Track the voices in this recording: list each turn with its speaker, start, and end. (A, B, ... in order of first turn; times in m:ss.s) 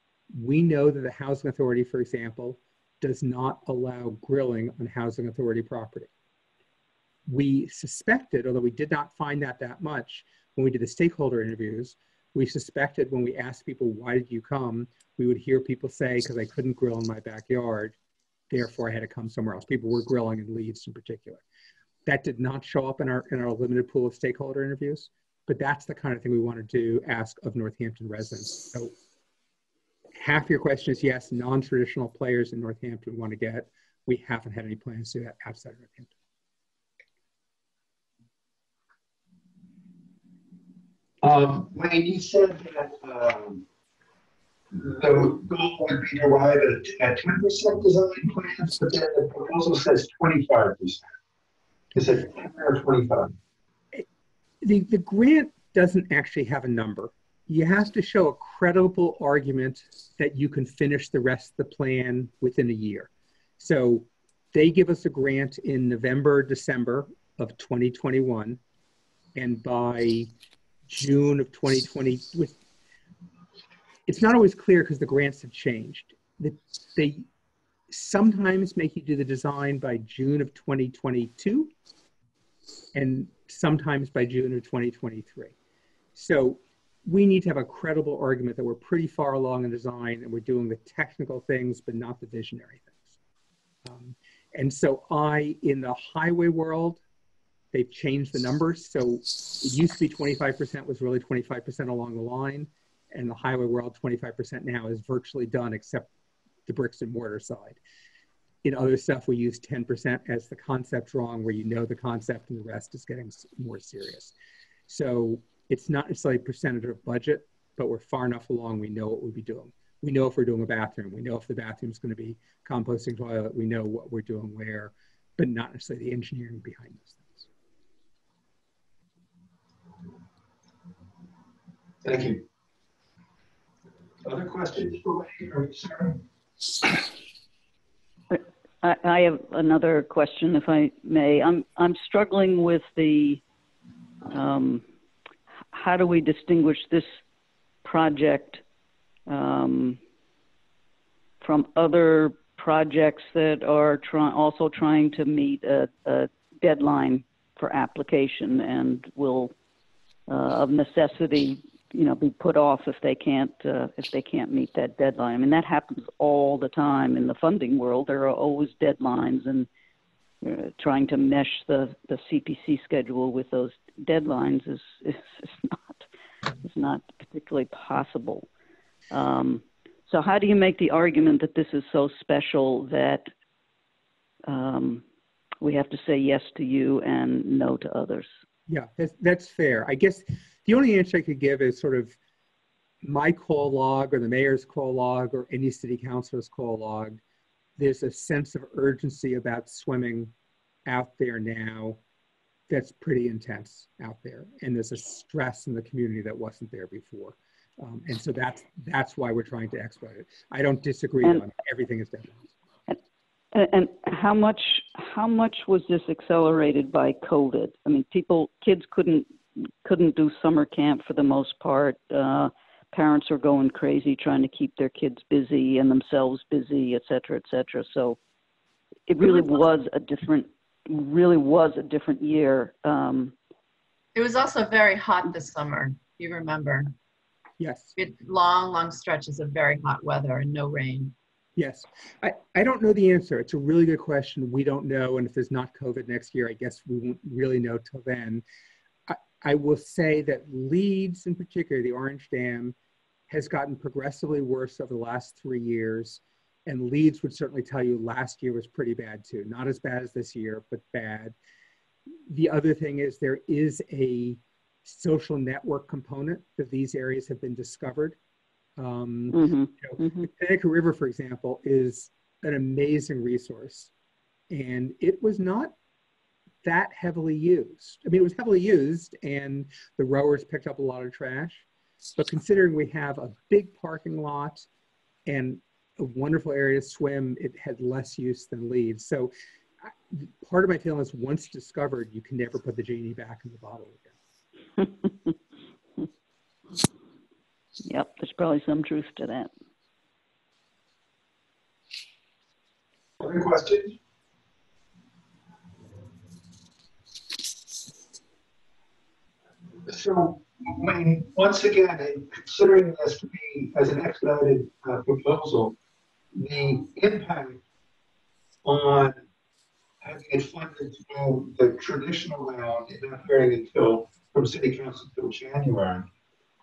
0:00.3-0:06.1 A
0:07.3-0:18.0 A
0:18.5-0:21.4 A
0:22.1-0:28.9 A
0:30.2-0:36.1 A
0:41.2-0:43.6 B
0:44.7-0:51.0 B
0:51.9-0:53.4 B
0:54.6-1:08.6 A
1:09.4-1:10.3 A
1:10.9-1:12.6 A
1:14.1-1:17.3 A
1:17.9-1:21.7 A
1:22.9-1:25.5 A
1:26.2-1:33.2 A
1:33.8-1:37.0 A
1:37.7-1:46.1 A
1:46.7-1:47.8 A
1:48.6-1:54.3 A
1:54.9-2:07.5 A
2:12.0-2:12.4 B
2:14.2-2:16.2 B
2:18.3-2:23.4 C
2:24.3-2:24.8 C
2:25.7-2:27.1 C
2:27.8-2:28.6 C
2:29.3-2:30.0 C
2:31.4-2:39.5 C
2:40.3-2:49.7 C
2:50.4-2:56.0 C
2:56.6-2:58.5 C
2:59.1-3:03.3 C
3:04.5-3:05.0 C
3:05.6-3:08.3 C
3:08.7-3:12.2 A
3:13.0-3:17.2 A
3:17.8-3:20.3 A
3:20.9-3:22.0 A
3:22.7-3:32.4 A
3:33.5-3:48.2 C
3:49.1-3:53.3 C
3:49.2-3:49.6 D
3:54.2-3:56.9 D
3:57.6-3:57.9 A
3:58.0-4:01.2 D
4:01.6-4:08.4 A
4:09.1-4:12.8 A
4:13.3-4:21.4 A
4:22.3-4:28.2 A
4:28.8-4:33.9 A
4:29.3-4:30.3 C
4:34.5-4:35.7 A
4:36.6-4:41.7 A
4:42.2-4:44.7 A
4:45.3-4:49.3 A
4:49.8-4:54.2 A
4:54.8-4:55.1 C
4:57.8-4:59.5 C
5:03.2-5:04.0 B
5:09.9-5:15.8 B
5:16.3-5:17.6 B
5:18.6-5:19.2 B
5:20.0-5:26.1 B